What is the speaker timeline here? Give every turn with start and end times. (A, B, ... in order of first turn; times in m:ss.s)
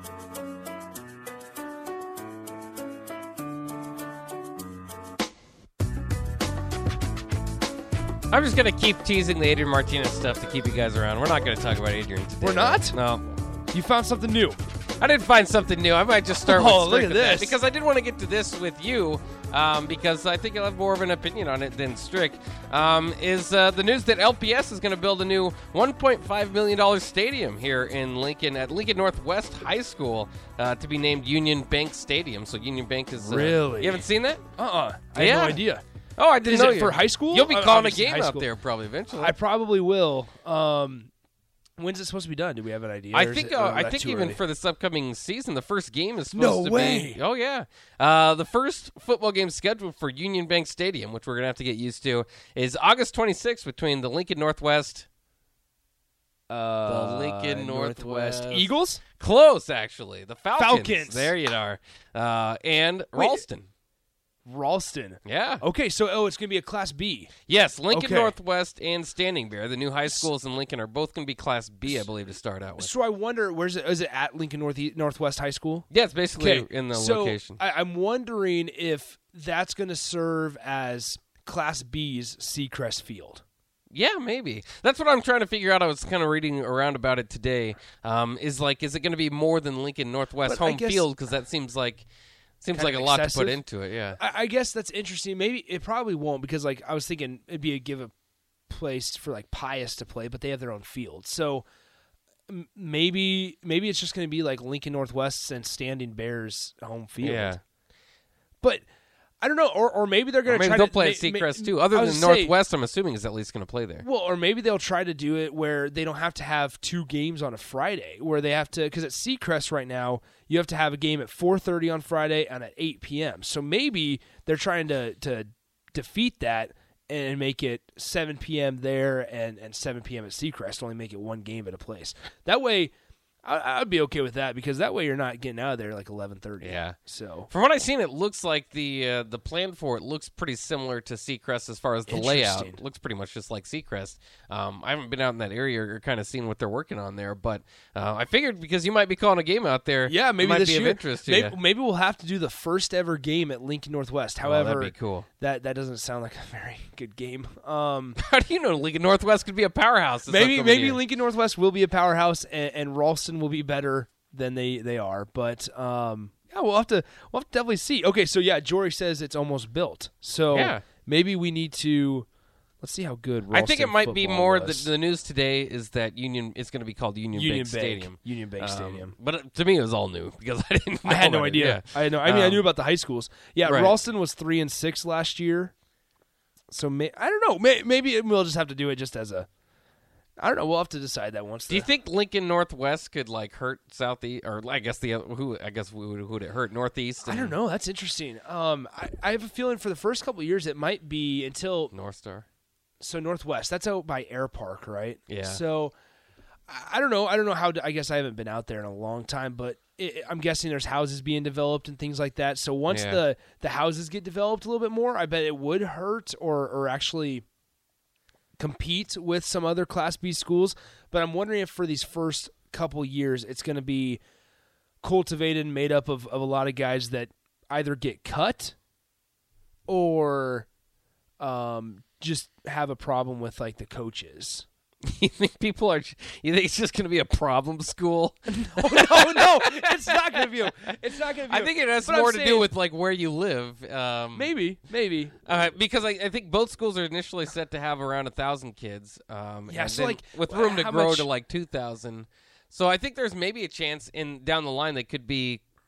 0:08.3-0:13.2 A
0:12.4-0:13.0 B
0:13.7-0:14.6 B
0:15.0-0:34.4 A
0:16.5-0:17.6 B
0:33.2-0:34.1 B
0:34.6-0:35.8 B
0:35.1-0:35.6 A
0:36.2-0:39.4 A
0:36.4-0:38.5 B
0:39.1-0:41.1 B
0:41.8-0:44.4 B
0:43.1-0:55.1 A
0:46.3-0:47.2 B
0:56.5-0:59.0 B
0:56.8-1:03.7 A
1:00.6-1:01.4 B
1:03.1-1:03.5 B
1:04.5-1:07.3 B
1:05.2-1:05.6 A
1:07.4-1:12.9 A
1:07.9-1:08.4 B
1:10.0-1:10.3 B
1:12.8-1:23.4 B
1:15.9-1:17.6 A
1:23.9-1:32.1 A
1:30.4-1:31.2 B
1:32.6-1:34.2 A
1:32.7-1:33.6 B
1:34.2-1:38.1 B
1:38.7-1:41.6 B
1:42.5-1:47.6 B
1:47.2-1:47.6 A
1:49.4-1:52.6 B
1:50.4-1:54.1 A
1:54.0-2:12.9 B
2:13.4-2:17.5 B
2:16.6-2:17.0 A
2:17.5-2:31.6 A
2:22.1-2:22.8 B
2:30.1-2:38.2 B
2:34.4-2:35.3 A
2:38.2-2:41.0 A
2:40.3-2:52.3 B
2:50.5-2:50.9 A
2:52.8-2:54.9 B
2:53.5-3:02.7 A
2:57.3-2:59.2 B
3:01.0-3:05.7 B
3:03.6-3:04.0 A
3:06.7-3:09.5 B
3:10.4-3:11.9 B
3:11.7-3:17.6 A
3:17.2-3:21.9 B
3:21.9-3:22.5 A
3:23.0-3:25.9 B
3:25.3-3:25.6 A
3:26.7-3:37.4 B
3:32.9-3:33.2 A
3:38.6-3:44.2 B
3:45.0-3:48.8 B
3:49.9-3:50.7 B
3:51.4-3:54.7 B
3:55.0-4:04.5 A
3:58.5-4:02.7 B
4:04.3-4:05.4 B
4:05.4-4:15.6 A
4:09.7-4:11.3 B